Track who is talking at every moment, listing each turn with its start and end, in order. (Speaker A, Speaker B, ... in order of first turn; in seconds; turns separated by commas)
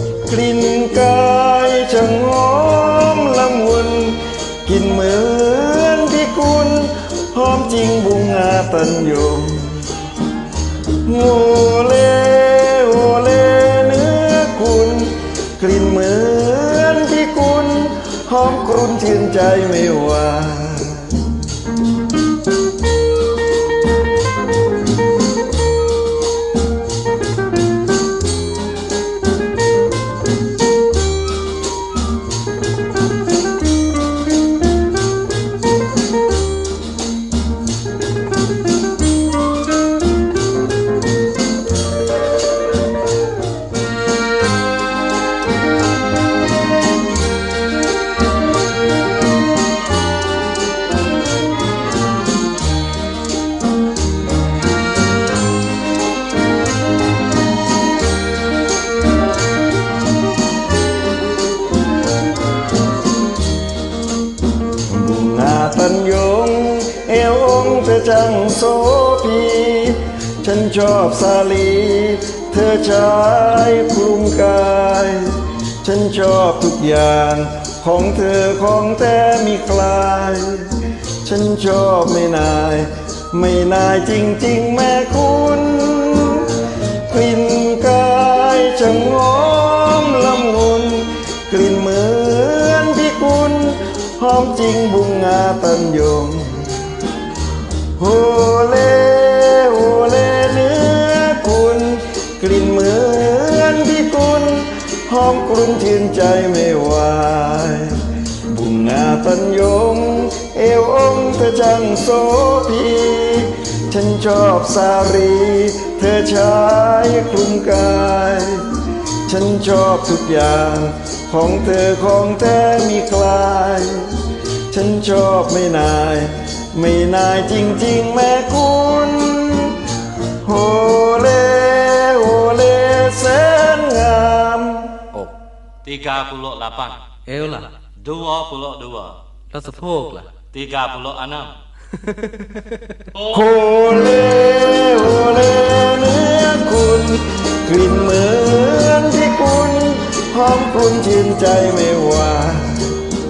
Speaker A: 0.2-9.9, Speaker A: 11.0-21.4, Speaker A: 64.8-96.9, Speaker A: 98.0-135.1, Speaker B: 135.8-137.2, Speaker C: 137.2-137.7, Speaker B: 137.8-139.2, Speaker C: 139.5-140.4, Speaker B: 140.4-141.6, Speaker C: 142.1-142.6, Speaker A: 143.2-153.0